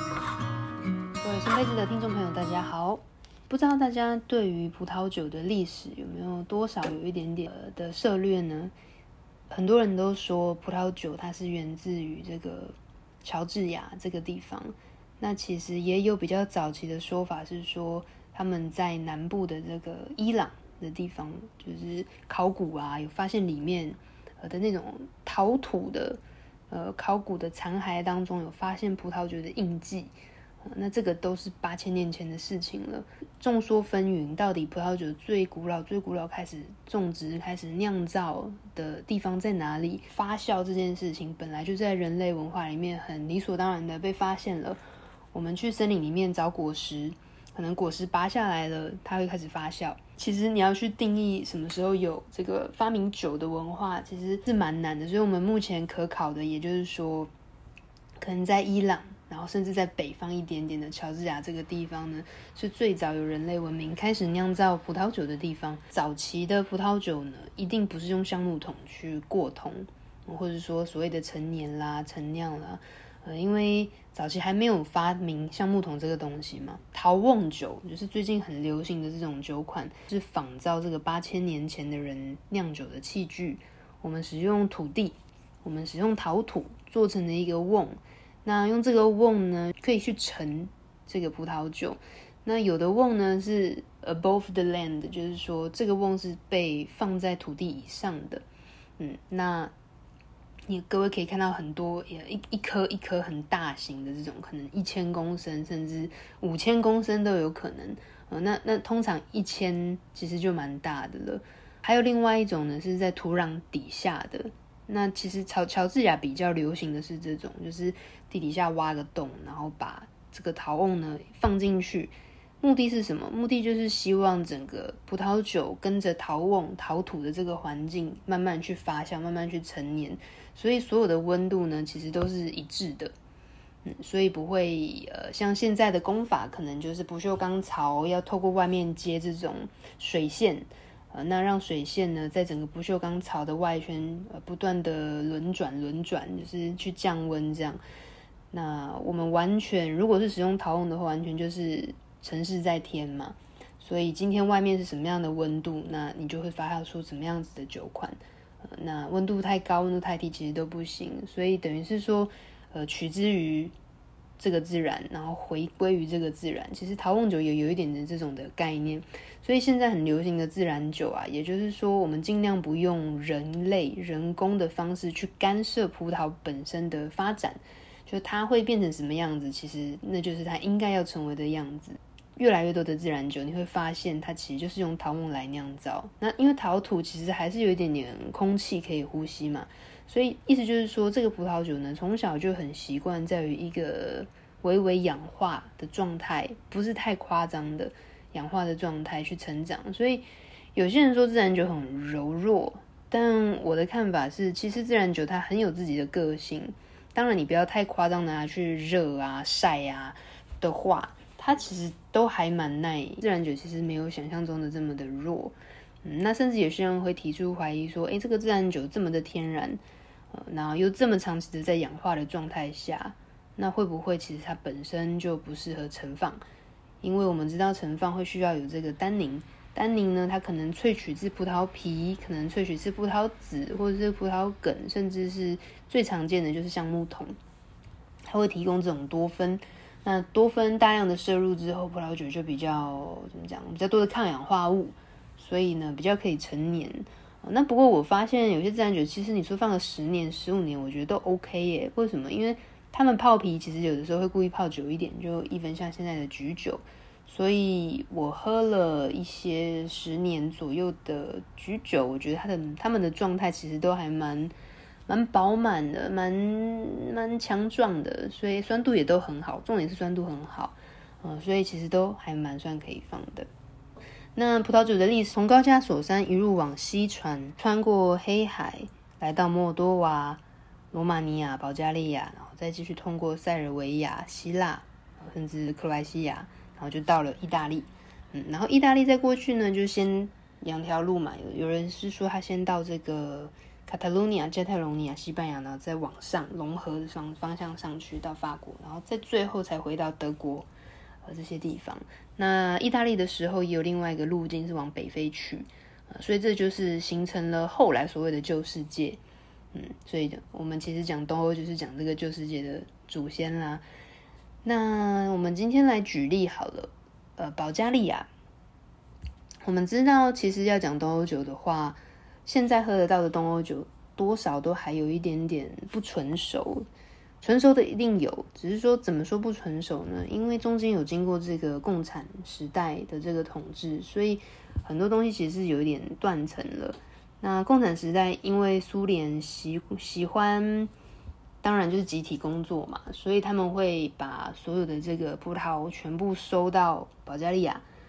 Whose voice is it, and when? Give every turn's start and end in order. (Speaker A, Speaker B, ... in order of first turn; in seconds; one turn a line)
Speaker A: 1.2-8.7
Speaker A: 9.5-30.1
Speaker A: 30.6-44.8
Speaker A: 45.3-57.3
Speaker A: 58.2-98.4
Speaker A: 99.0-99.7
Speaker A: 100.7-133.1
Speaker A: 133.8-147.8
Speaker A: 148.5-163.7
Speaker A: 164.4-219.8
Speaker A: 220.3-226.4
Speaker A: 227.0-237.3
Speaker A: 238.3-264.5
Speaker A: 265.1-273.5
Speaker A: 274.4-280.4
Speaker A: 280.9-300.7
Speaker A: 301.2-309.2
Speaker A: 309.7-313.8
Speaker A: 314.6-318.3
Speaker A: 319.6-326.9
Speaker A: 327.4-340.9
Speaker A: 341.6-347.8